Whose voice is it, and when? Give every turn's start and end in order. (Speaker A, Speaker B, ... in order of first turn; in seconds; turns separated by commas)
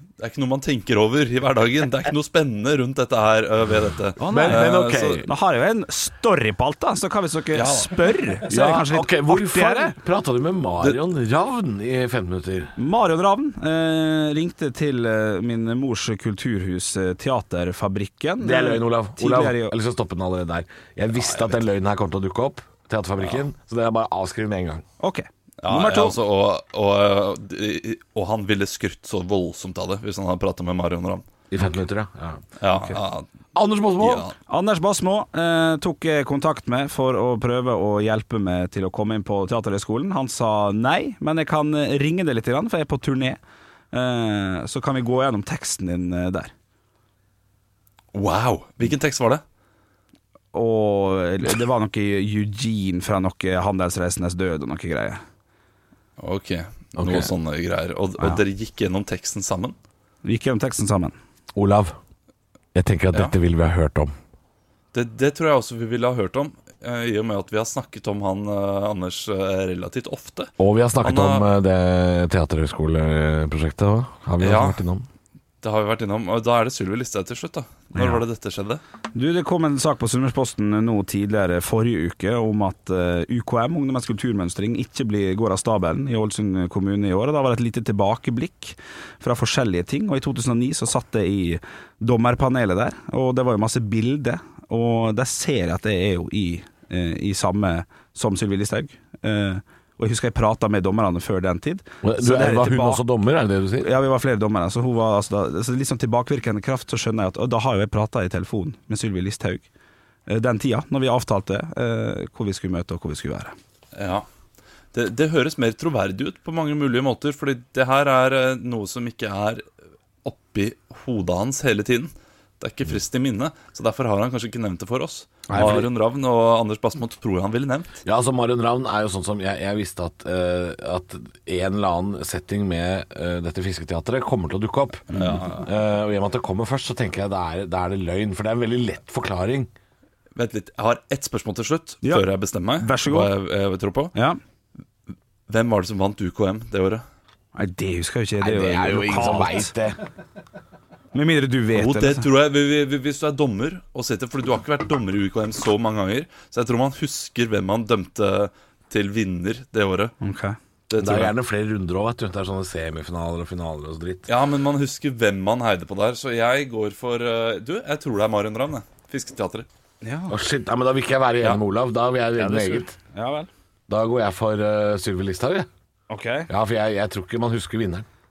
Speaker A: 0.2-5.2, Speaker B: 4.2-9.9, Speaker C: 4.2-5.3, Speaker A: 7.5-8.2, Speaker C: 8.5-12.7, Speaker B: 12.8-19.8, Speaker C: 18.4-24.8, Speaker B: 25.0-26.1, Speaker A: 25.6-31.3, Speaker C: 31.5-32.4, Speaker A: 32.6-33.3, Speaker C: 33.5-34.3, Speaker A: 34.0-34.3, Speaker B: 34.5-43.4, Speaker B: 43.9-46.5, Speaker A: 48.1-49.4, Speaker B: 50.5-55.2, Speaker A: 56.2-59.8, Speaker C: 57.0-57.3, Speaker B: 60.2-61.1, Speaker C: 61.5-62.0, Speaker C: 62.7-64.1, Speaker A: 64.9-71.5, Speaker C: 70.6-75.1, Speaker A: 74.4-74.8, Speaker A: 75.6-78.8, Speaker B: 77.9-78.2, Speaker B: 79.1-103.0, Speaker C: 102.0-103.9, Speaker B: 103.8-109.7, Speaker B: 110.3-113.5, Speaker A: 113.9-114.2, Speaker A: 114.9-119.6, Speaker A: 120.2-128.0, Speaker C: 125.5-125.9, Speaker C: 128.0-139.7, Speaker B: 135.1-135.5, Speaker A: 135.1-135.7, Speaker A: 140.3-144.1, Speaker B: 142.8-143.3, Speaker A: 145.5-147.0, Speaker B: 147.5-149.7, Speaker C: 148.4-150.0, Speaker B: 151.1-152.3, Speaker A: 151.7-160.1, Speaker B: 160.2-160.6, Speaker A: 160.9-161.3, Speaker C: 161.0-164.3, Speaker A: 164.3-169.7, Speaker B: 170.0-170.4, Speaker C: 170.3-172.9, Speaker B: 172.3-173.5, Speaker C: 173.9-175.7, Speaker B: 176.1-176.5, Speaker C: 176.5-178.1